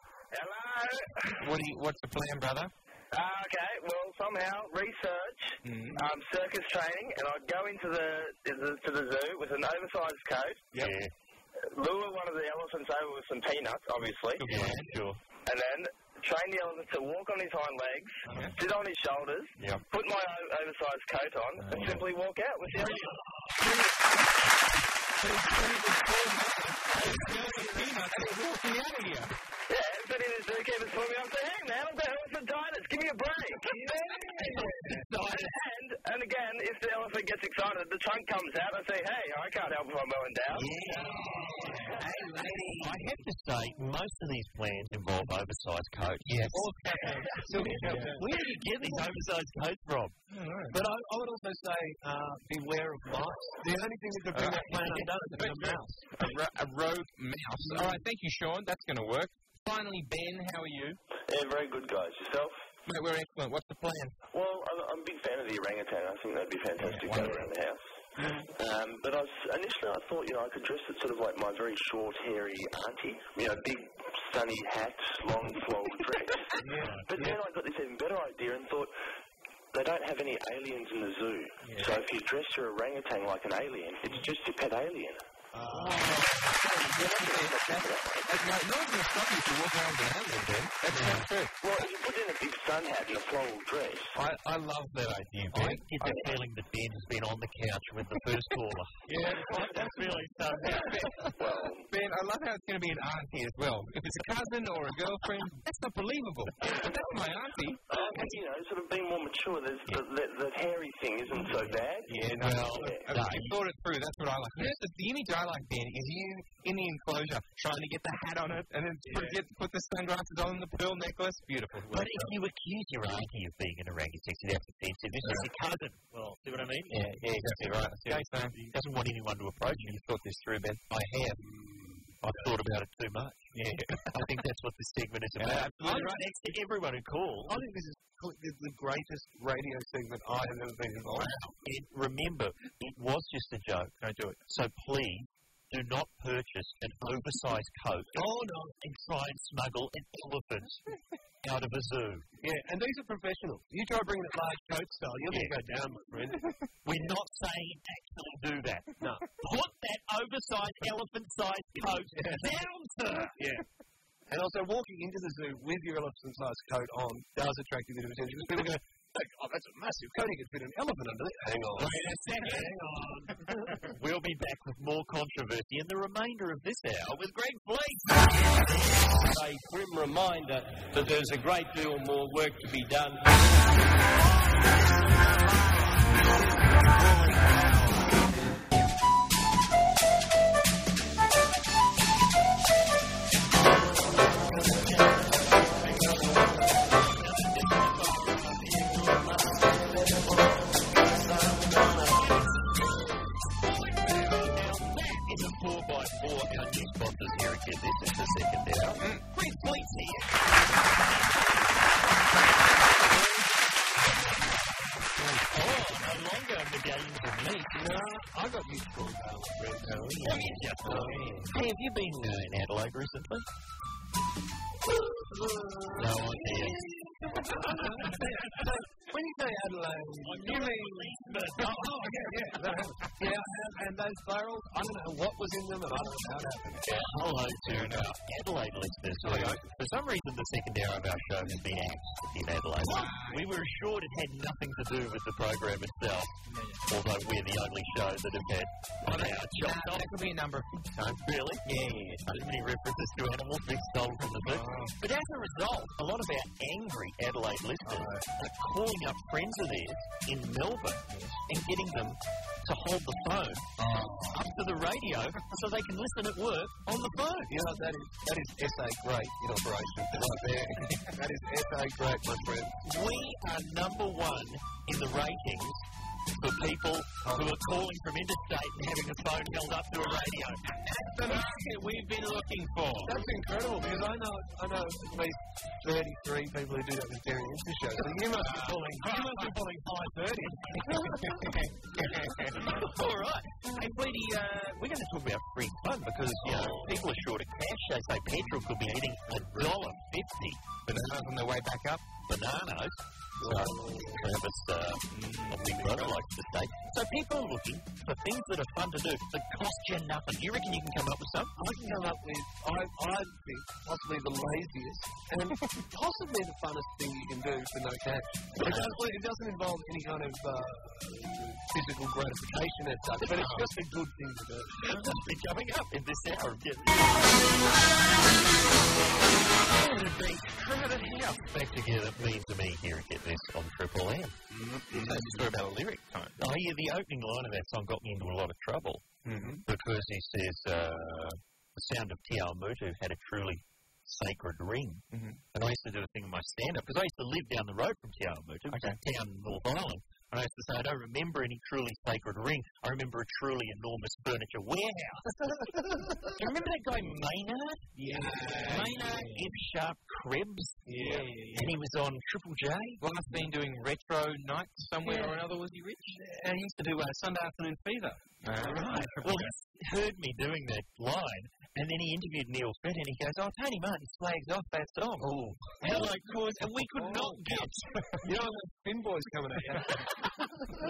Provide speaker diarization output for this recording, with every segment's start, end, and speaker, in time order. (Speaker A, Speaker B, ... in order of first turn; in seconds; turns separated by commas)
Speaker A: 0.3-1.3, Speaker B: 1.3-2.7, Speaker A: 3.1-10.7, Speaker B: 5.6-6.0, Speaker C: 10.8-11.1, Speaker A: 11.7-14.4, Speaker B: 14.4-14.9, Speaker C: 14.4-15.2, Speaker A: 15.4-22.9, Speaker B: 18.2-18.6, Speaker C: 18.3-18.5, Speaker B: 21.6-22.0, Speaker B: 22.7-23.8, Speaker B: 25.2-29.3, Speaker D: 27.1-28.2, Speaker A: 29.7-33.7, Speaker D: 33.7-34.8, Speaker B: 34.4-35.0, Speaker C: 34.4-35.4, Speaker A: 35.3-40.7, Speaker C: 40.5-46.6, Speaker B: 40.9-43.2, Speaker D: 41.0-42.6, Speaker B: 46.3-48.3, Speaker D: 46.5-48.3, Speaker C: 47.4-50.1, Speaker B: 50.3-50.8, Speaker D: 50.7-56.2, Speaker B: 54.3-61.0, Speaker D: 57.6-58.0, Speaker E: 61.3-62.6, Speaker B: 62.9-64.2, Speaker E: 64.3-67.8, Speaker B: 66.8-67.5, Speaker D: 68.2-68.4, Speaker E: 68.5-76.5, Speaker D: 76.6-77.4, Speaker E: 77.1-78.9, Speaker E: 79.7-85.2, Speaker B: 81.6-82.0, Speaker B: 85.5-91.5, Speaker E: 86.8-88.3, Speaker C: 90.9-91.3, Speaker E: 91.6-94.2, Speaker B: 94.1-96.3, Speaker C: 95.5-101.1, Speaker B: 99.1-101.3, Speaker D: 99.1-99.9, Speaker E: 101.4-101.9, Speaker B: 101.9-107.8, Speaker E: 107.9-113.1, Speaker B: 112.1-122.3, Speaker C: 112.3-113.6, Speaker D: 119.1-119.4, Speaker C: 121.9-130.0, Speaker B: 125.2-125.5, Speaker B: 126.9-128.7, Speaker B: 129.8-131.4, Speaker D: 131.4-132.2, Speaker C: 132.2-133.5, Speaker B: 133.5-134.0, Speaker C: 134.0-137.6, Speaker B: 135.4-136.2, Speaker D: 135.8-136.2, Speaker D: 137.5-141.3, Speaker B: 141.1-141.5, Speaker C: 141.6-150.9, Speaker B: 144.0-144.4, Speaker D: 148.1-148.8, Speaker C: 151.4-152.2, Speaker D: 152.4-156.4, Speaker C: 155.2-155.6, Speaker C: 156.8-163.4, Speaker D: 159.0-159.3, Speaker D: 162.2-162.5, Speaker D: 163.3-163.6, Speaker D: 164.3-173.8, Speaker B: 171.8-172.7, Speaker C: 173.9-178.7, Speaker F: 179.2-183.3, Speaker C: 184.4-185.5, Speaker C: 194.3-195.2, Speaker C: 195.8-196.3, Speaker C: 197.0-202.5, Speaker C: 203.6-210.5, Speaker B: 209.0-209.2, Speaker C: 215.4-217.9, Speaker D: 217.7-221.4, Speaker C: 219.8-223.5, Speaker B: 220.3-221.4, Speaker D: 225.1-236.9, Speaker C: 225.9-226.9, Speaker C: 227.6-228.3, Speaker C: 230.2-232.6, Speaker C: 236.8-250.1, Speaker B: 237.6-238.2, Speaker B: 239.2-239.6, Speaker D: 239.2-239.6, Speaker B: 242.8-243.5, Speaker B: 246.5-246.8, Speaker B: 249.1-251.1, Speaker C: 250.9-251.7, Speaker B: 251.6-252.4, Speaker C: 252.2-267.5, Speaker B: 254.4-254.9, Speaker B: 257.8-258.2, Speaker B: 261.1-261.4, Speaker D: 267.5-272.8, Speaker C: 272.8-275.8, Speaker C: 276.4-280.6, Speaker D: 277.2-277.8, Speaker B: 280.8-283.2, Speaker D: 283.0-291.3, Speaker B: 288.3-289.6, Speaker B: 290.8-292.8, Speaker C: 292.5-300.6, Speaker B: 296.4-296.9, Speaker B: 300.9-302.0, Speaker C: 302.2-311.5, Speaker D: 303.4-304.2, Speaker B: 305.1-306.1, Speaker D: 311.6-325.1, Speaker C: 318.6-318.9, Speaker C: 324.8-327.7, Speaker C: 329.7-339.1, Speaker D: 334.5-335.2, Speaker B: 334.9-336.3, Speaker B: 339.2-339.6, Speaker D: 339.2-339.6, Speaker C: 339.6-355.3, Speaker B: 345.1-345.4, Speaker B: 348.7-349.0, Speaker C: 356.2-363.0, Speaker B: 358.0-359.5, Speaker D: 358.0-359.1, Speaker B: 360.9-361.7, Speaker D: 360.9-361.3, Speaker B: 363.0-366.2, Speaker G: 365.1-365.4, Speaker G: 366.2-368.2, Speaker B: 368.4-369.5, Speaker D: 368.6-369.2, Speaker C: 368.6-377.9, Speaker D: 375.7-376.2, Speaker D: 376.8-377.6, Speaker D: 378.2-380.1